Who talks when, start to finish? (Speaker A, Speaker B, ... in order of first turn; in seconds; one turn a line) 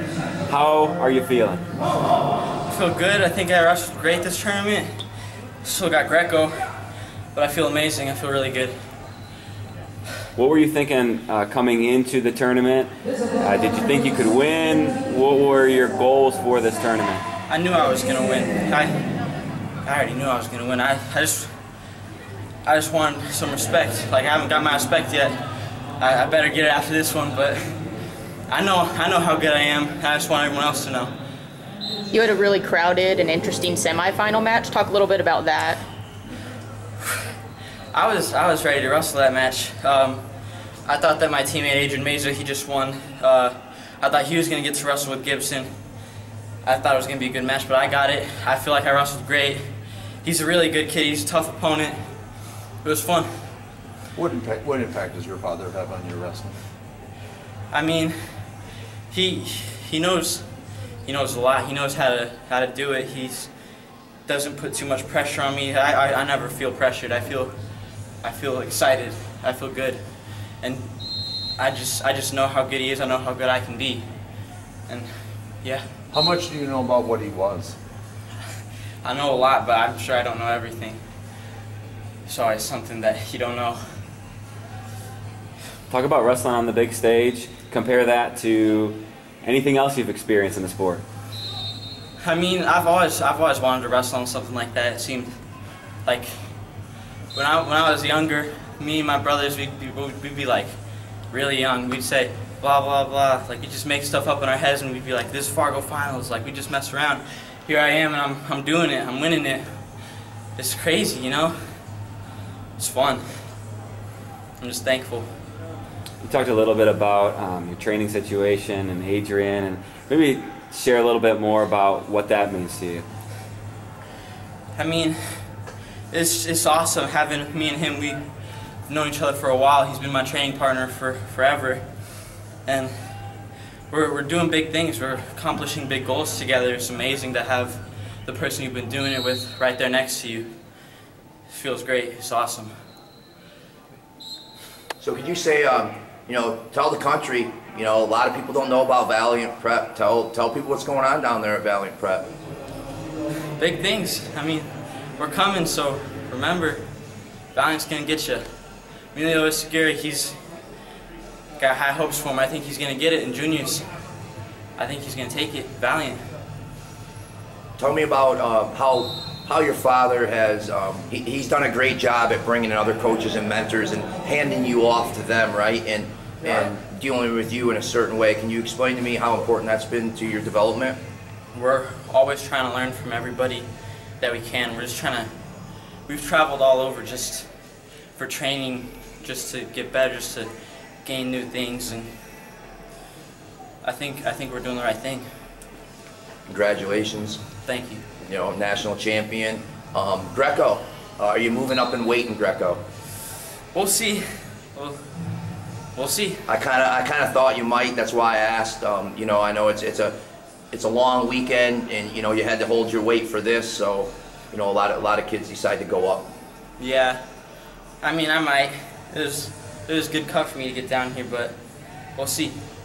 Speaker A: 0.5-1.6
Speaker B: 2.6-4.9
Speaker B: 5.6-6.6
Speaker B: 7.3-8.8
Speaker A: 10.4-17.2
Speaker B: 17.5-18.9
Speaker B: 19.9-21.5
Speaker B: 22.6-25.4
Speaker B: 26.0-27.7
Speaker B: 28.5-31.1
Speaker C: 32.1-35.8
Speaker B: 37.9-40.2
Speaker B: 40.9-45.7
Speaker B: 46.6-49.7
Speaker B: 50.2-52.0
Speaker B: 52.8-53.3
Speaker D: 54.1-56.6
Speaker B: 57.7-58.1
Speaker B: 59.1-60.5
Speaker B: 61.0-63.5
Speaker B: 64.3-67.5
Speaker B: 68.2-70.0
Speaker B: 70.6-70.9
Speaker B: 71.6-74.1
Speaker B: 74.9-75.8
Speaker D: 76.1-77.8
Speaker B: 79.0-81.0
Speaker B: 82.3-84.0
Speaker A: 85.9-91.0
Speaker B: 92.2-95.3
Speaker B: 96.0-96.5
Speaker B: 97.3-100.7
Speaker B: 101.3-109.7
Speaker B: 110.6-111.6
Speaker B: 112.8-113.2
Speaker B: 114.6-115.3
Speaker A: 116.2-123.0
Speaker B: 124.8-125.2
Speaker B: 126.1-128.2
Speaker B: 128.9-131.9
Speaker B: 132.6-133.1
Speaker B: 133.9-140.5
Speaker B: 141.5-142.7
Speaker E: 145.0-152.3
Speaker B: 153.6-156.8
Speaker B: 157.5-158.4
Speaker B: 159.1-160.4
Speaker B: 161.6-163.9
Speaker B: 164.8-166.2
Speaker E: 167.8-181.0
Speaker B: 181.5-183.7
Speaker B: 184.2-185.3
Speaker B: 186.1-187.5
Speaker B: 188.2-190.5
Speaker B: 191.0-192.1
Speaker B: 193.8-195.2
Speaker E: 196.5-197.4
Speaker B: 197.7-198.0
Speaker E: 198.2-202.8
Speaker B: 203.7-205.0
Speaker B: 205.9-206.4
Speaker E: 206.5-210.1
Speaker E: 210.7-216.3
Speaker B: 216.8-217.2
Speaker B: 218.0-221.6
Speaker B: 222.2-222.6